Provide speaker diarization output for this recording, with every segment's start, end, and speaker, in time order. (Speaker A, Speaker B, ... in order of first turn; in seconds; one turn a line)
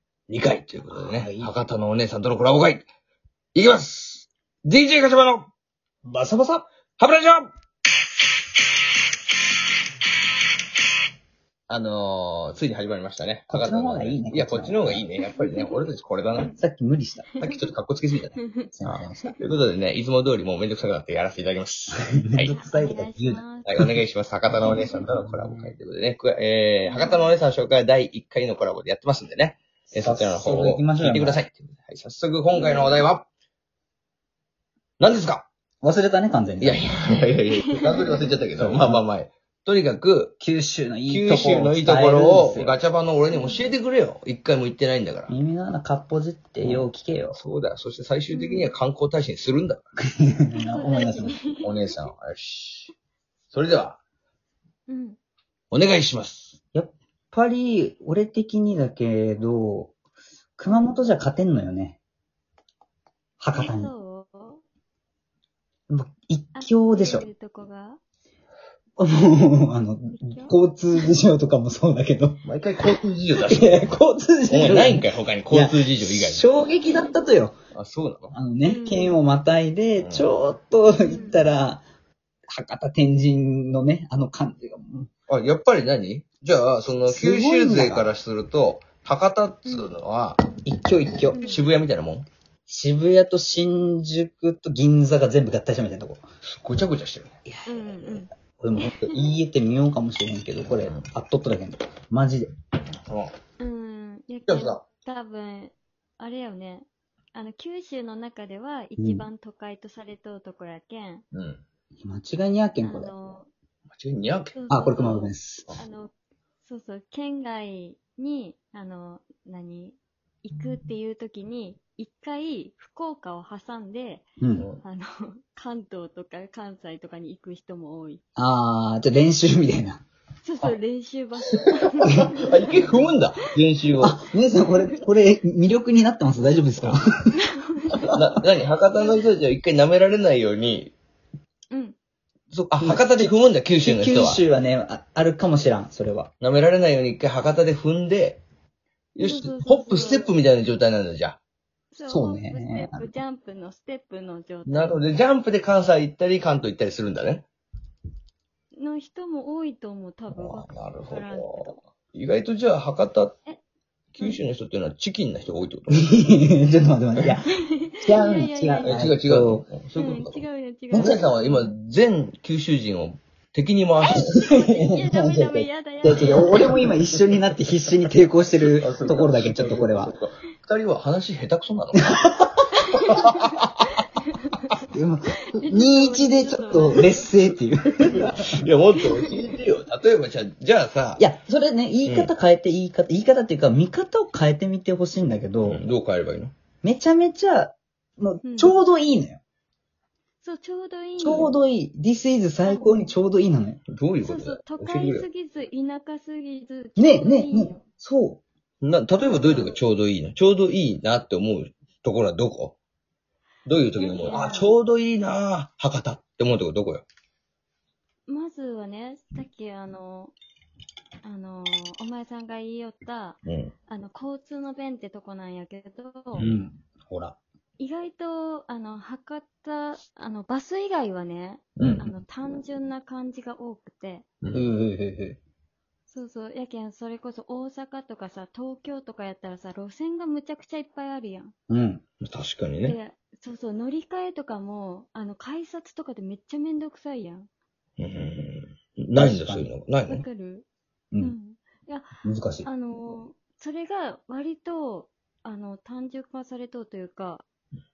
Speaker A: 0.3-2.9
Speaker B: 0.9-1.5
Speaker A: 3.5-5.5
Speaker B: 6.0-6.7
Speaker A: 7.0-7.5
Speaker A: 11.7-16.5
Speaker B: 13.5-15.1
Speaker C: 15.4-15.7
Speaker B: 16.6-17.3
Speaker A: 17.4-22.5
Speaker C: 18.4-18.7
Speaker B: 18.7-19.4
Speaker B: 21.9-23.9
Speaker C: 22.5-23.8
Speaker A: 23.6-33.2
Speaker B: 24.6-25.7
Speaker C: 24.7-25.0
Speaker C: 26.9-27.3
Speaker B: 29.9-31.4
Speaker C: 32.5-33.0
Speaker A: 35.0-35.5
Speaker B: 35.8-36.9
Speaker A: 36.6-40.4
Speaker B: 38.6-39.0
Speaker B: 40.4-42.8
Speaker A: 41.0-45.3
Speaker C: 43.3-43.7
Speaker B: 45.3-47.4
Speaker A: 46.6-49.8
Speaker C: 48.3-48.7
Speaker B: 50.0-51.5
Speaker C: 50.6-52.0
Speaker A: 51.6-52.9
Speaker A: 53.5-54.0
Speaker C: 54.9-55.2
Speaker A: 55.7-56.6
Speaker B: 56.7-59.9
Speaker B: 60.6-62.0
Speaker C: 60.7-60.9
Speaker B: 63.4-63.9
Speaker C: 63.5-64.6
Speaker B: 65.9-67.3
Speaker C: 66.5-68.0
Speaker B: 69.0-72.4
Speaker C: 70.1-71.1
Speaker A: 72.4-73.8
Speaker B: 73.3-77.5
Speaker A: 74.5-76.4
Speaker A: 77.7-78.3
Speaker B: 78.3-81.8
Speaker C: 78.6-79.2
Speaker A: 80.0-80.3
Speaker C: 81.0-81.4
Speaker B: 82.5-85.1
Speaker A: 85.3-90.4
Speaker B: 87.0-88.1
Speaker C: 89.7-89.9
Speaker B: 90.6-91.5
Speaker A: 91.2-92.2
Speaker C: 91.3-91.6
Speaker B: 92.7-96.2
Speaker A: 96.4-97.4
Speaker B: 97.5-102.5
Speaker C: 97.6-99.1
Speaker A: 100.8-101.0
Speaker A: 103.1-103.3
Speaker C: 103.6-111.2
Speaker A: 104.5-104.8
Speaker B: 109.0-109.3
Speaker A: 111.3-111.6
Speaker B: 112.0-113.1
Speaker C: 112.8-113.5
Speaker A: 113.9-115.0
Speaker C: 114.5-124.2
Speaker B: 114.7-115.7
Speaker B: 124.4-124.7
Speaker C: 124.8-128.2
Speaker B: 128.3-130.0
Speaker C: 130.4-133.2
Speaker B: 132.0-132.3
Speaker A: 132.4-134.2
Speaker B: 134.0-137.4
Speaker C: 137.3-138.1
Speaker A: 138.1-140.9
Speaker C: 138.9-139.2
Speaker C: 141.7-141.9
Speaker A: 142.5-144.4
Speaker B: 142.8-146.3
Speaker A: 146.4-148.4
Speaker A: 149.1-151.4
Speaker C: 149.2-150.3
Speaker C: 151.9-155.0
Speaker B: 152.0-153.1
Speaker A: 154.7-157.4
Speaker C: 158.7-161.8
Speaker A: 160.3-163.3
Speaker A: 164.1-166.2
Speaker B: 165.9-169.6
Speaker C: 167.5-169.0
Speaker A: 168.8-174.4
Speaker C: 169.9-171.7
Speaker B: 174.1-180.1
Speaker C: 174.2-176.8
Speaker A: 176.1-177.5
Speaker A: 178.6-182.1
Speaker B: 181.9-182.7
Speaker C: 182.7-184.8
Speaker A: 183.0-183.7
Speaker B: 184.9-188.7
Speaker C: 185.6-187.3
Speaker A: 188.0-191.2
Speaker C: 188.9-189.3
Speaker B: 191.2-195.8
Speaker A: 192.0-192.3
Speaker A: 195.6-196.5
Speaker B: 196.8-199.4
Speaker C: 198.4-198.8
Speaker C: 200.4-201.6
Speaker B: 201.2-203.8
Speaker C: 202.6-203.1
Speaker A: 203.9-205.3
Speaker C: 204.2-207.8
Speaker B: 207.0-208.4
Speaker A: 208.8-212.8
Speaker C: 209.2-209.8
Speaker A: 213.7-217.0
Speaker C: 213.9-214.7
Speaker C: 218.3-220.3
Speaker C: 221.2-226.5
Speaker A: 223.4-223.7
Speaker A: 226.3-226.6
Speaker B: 226.4-227.4
Speaker C: 227.8-234.2
Speaker A: 231.8-232.1
Speaker B: 231.8-232.1
Speaker A: 234.4-234.7
Speaker B: 234.5-235.4
Speaker C: 236.1-241.5
Speaker B: 241.7-242.0
Speaker A: 242.2-243.0
Speaker C: 242.8-247.5
Speaker A: 248.0-250.2
Speaker B: 249.1-249.7
Speaker C: 250.1-250.7
Speaker C: 251.2-252.1
Speaker B: 252.2-252.7
Speaker C: 252.6-257.4